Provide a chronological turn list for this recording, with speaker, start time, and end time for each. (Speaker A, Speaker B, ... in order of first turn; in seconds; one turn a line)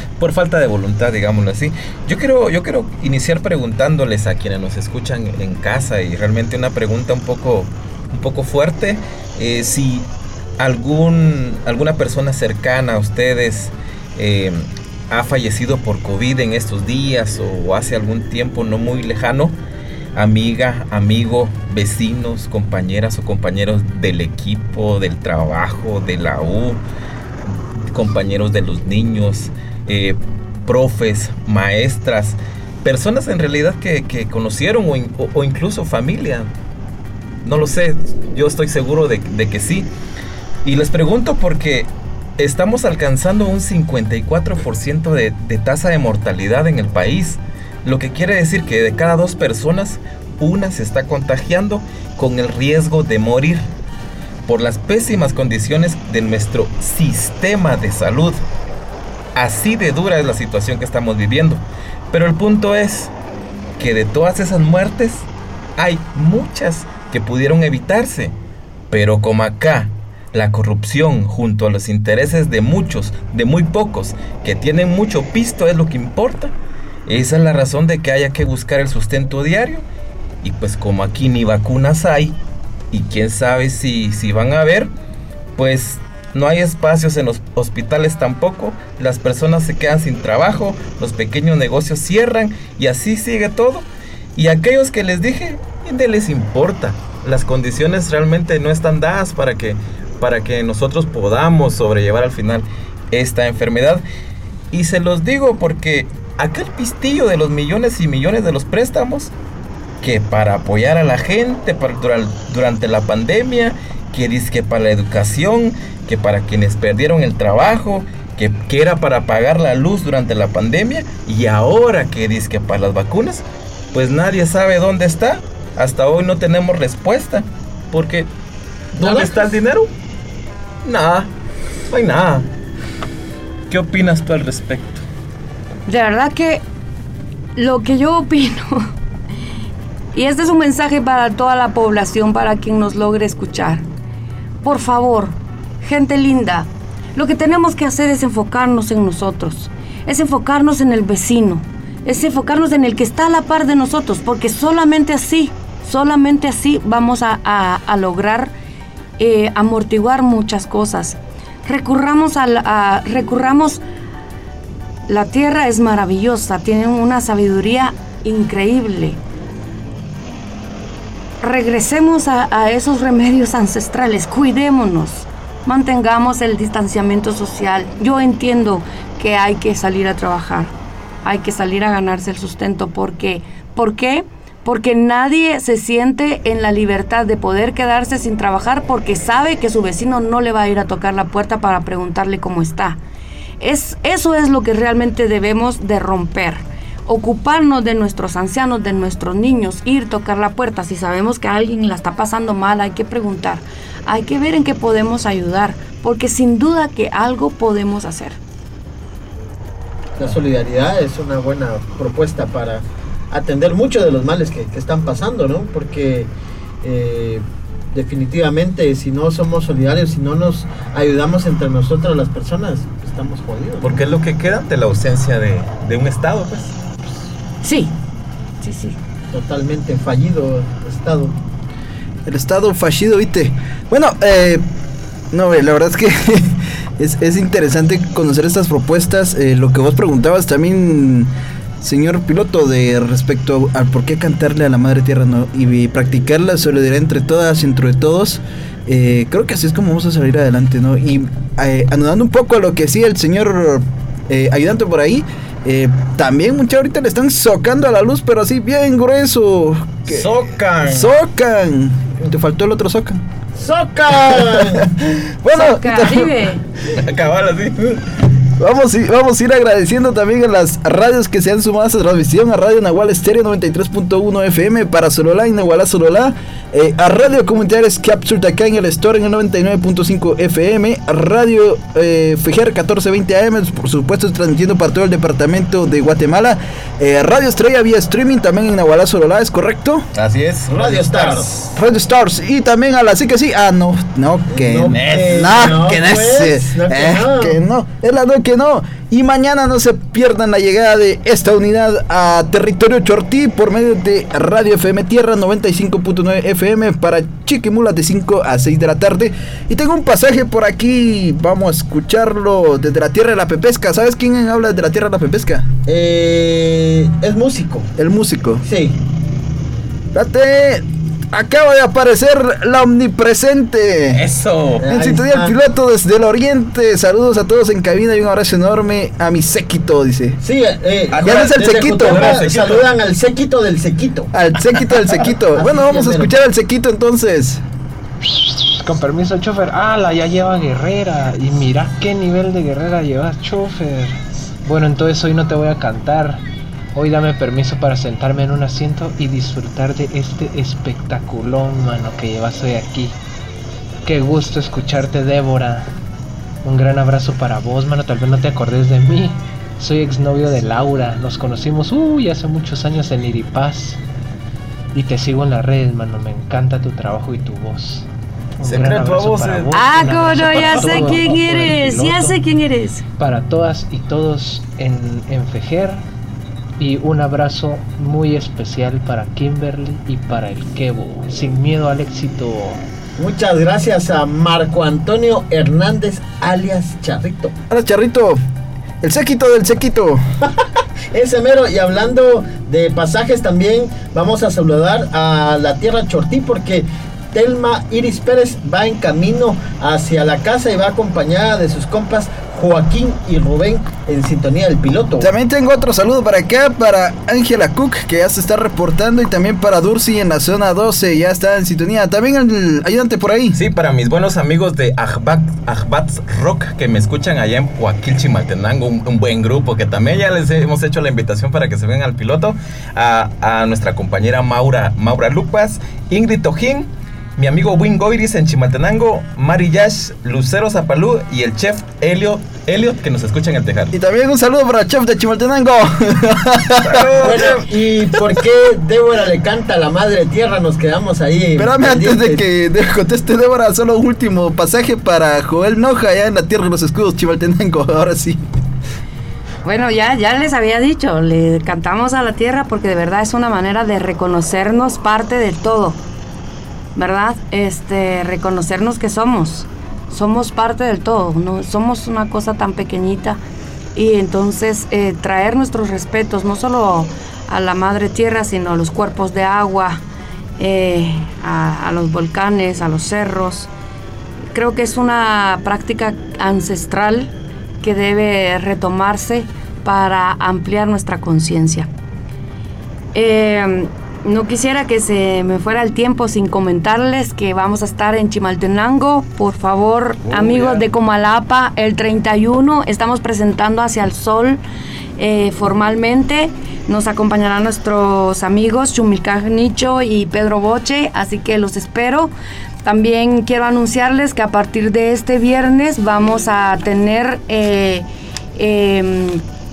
Speaker A: 0.2-10.1
Speaker A: 10.6-19.6
Speaker A: 20.1-26.8
Speaker A: 27.9-36.5
Speaker A: 37.4-39.9
Speaker A: 40.6-53.7
Speaker A: 54.5-58.4
Speaker A: 59.3-63.1
Speaker A: 63.8-68.3
Speaker A: 68.9-76.5
Speaker A: 77.0-79.8
Speaker A: 80.4-82.3
Speaker A: 82.9-84.9
Speaker A: 85.5-104.0
Speaker A: 104.7-109.3
Speaker A: 110.0-128.3
Speaker A: 128.9-129.9
Speaker B: 129.0-129.3
Speaker A: 130.8-131.3
Speaker A: 131.9-132.5
Speaker A: 133.7-135.0
Speaker C: 135.9-136.6
Speaker C: 137.6-138.8
Speaker C: 140.1-143.8
Speaker C: 144.6-158.5
Speaker C: 159.2-163.8
Speaker C: 165.1-169.2
Speaker C: 171.4-180.7
Speaker C: 181.2-193.0
Speaker C: 193.6-208.4
Speaker B: 210.2-216.3
Speaker B: 216.8-224.0
Speaker A: 223.8-226.7
Speaker C: 227.6-227.9
Speaker C: 228.6-228.9
Speaker B: 229.3-231.3
Speaker D: 232.2-234.6
Speaker D: 235.3-260.3
Speaker A: 260.1-261.1
Speaker D: 260.9-263.2
Speaker B: 263.6-264.9
Speaker D: 264.3-264.9
Speaker D: 265.4-266.3
Speaker C: 265.5-266.6
Speaker A: 266.9-268.0
Speaker D: 268.6-290.0
Speaker A: 290.1-291.7
Speaker B: 290.7-291.5
Speaker D: 291.7-315.7
Speaker B: 294.5-297.6
Speaker A: 294.9-295.8
Speaker B: 315.9-317.9
Speaker D: 318.0-318.6
Speaker B: 318.6-319.0
Speaker D: 320.1-324.2
Speaker A: 324.1-324.8
Speaker B: 324.8-325.5
Speaker D: 324.8-330.4
Speaker B: 330.4-334.3
Speaker A: 331.1-332.9
Speaker D: 331.2-332.4
Speaker D: 334.3-337.6
Speaker B: 335.5-336.3
Speaker E: 338.3-346.4
Speaker E: 346.9-353.2
Speaker E: 354.0-355.9
Speaker E: 356.6-364.0
Speaker E: 364.9-368.1
Speaker E: 368.6-372.4
Speaker A: 368.6-371.3
Speaker C: 369.7-373.0
Speaker E: 373.2-376.0
Speaker E: 376.8-382.8
Speaker B: 383.2-387.5
Speaker D: 387.7-388.4
Speaker D: 389.0-390.2
Speaker B: 391.1-405.3
Speaker D: 405.2-413.6
Speaker A: 413.5-433.9
Speaker D: 433.9-437.6
Speaker A: 436.8-437.7
Speaker B: 437.2-442.4
Speaker D: 441.5-448.4
Speaker C: 449.6-456.0
Speaker C: 456.9-463.4
Speaker C: 463.9-470.0
Speaker C: 470.6-473.7
Speaker C: 474.5-481.9
Speaker C: 483.1-494.6
Speaker A: 490.3-490.8
Speaker C: 495.2-502.3
Speaker C: 502.8-509.4